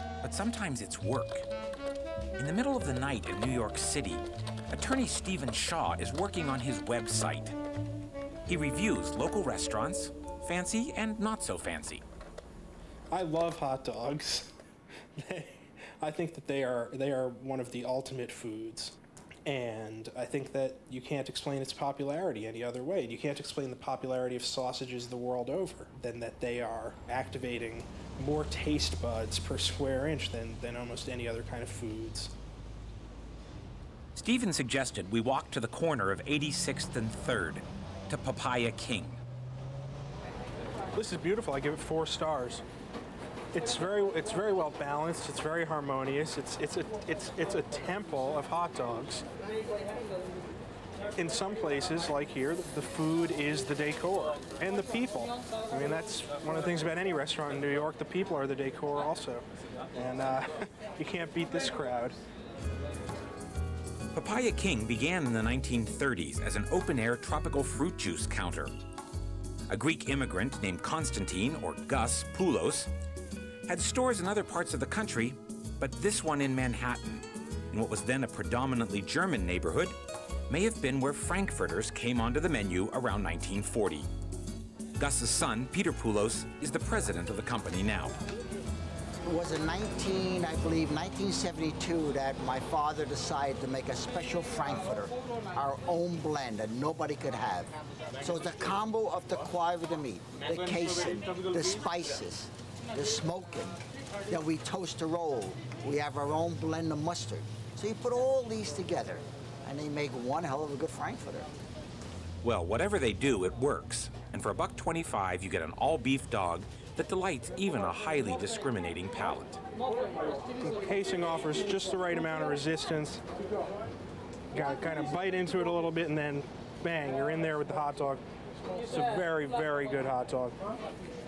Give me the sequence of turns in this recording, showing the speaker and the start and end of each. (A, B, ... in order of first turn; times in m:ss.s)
0:00.2-0:01.4 A
0:02.4-0:07.5 A
0:08.5-0:12.0 A
0:13.1-0:14.5 B
0:15.2-0:32.3 B
0:34.2-0:39.2 A
0:40.9-0:42.6 B
0:43.5-0:49.2 B
0:51.2-1:02.2 B
1:04.1-1:08.7 A
1:09.7-1:12.9 A
1:13.7-1:20.0 A
1:20.5-1:24.1 A
1:25.0-1:28.2 A
1:29.2-1:43.8 C
1:44.3-1:51.5 C
1:52.4-1:59.6 A
2:00.6-2:03.2 B
2:04.5-2:08.2 B
2:08.8-2:10.6 B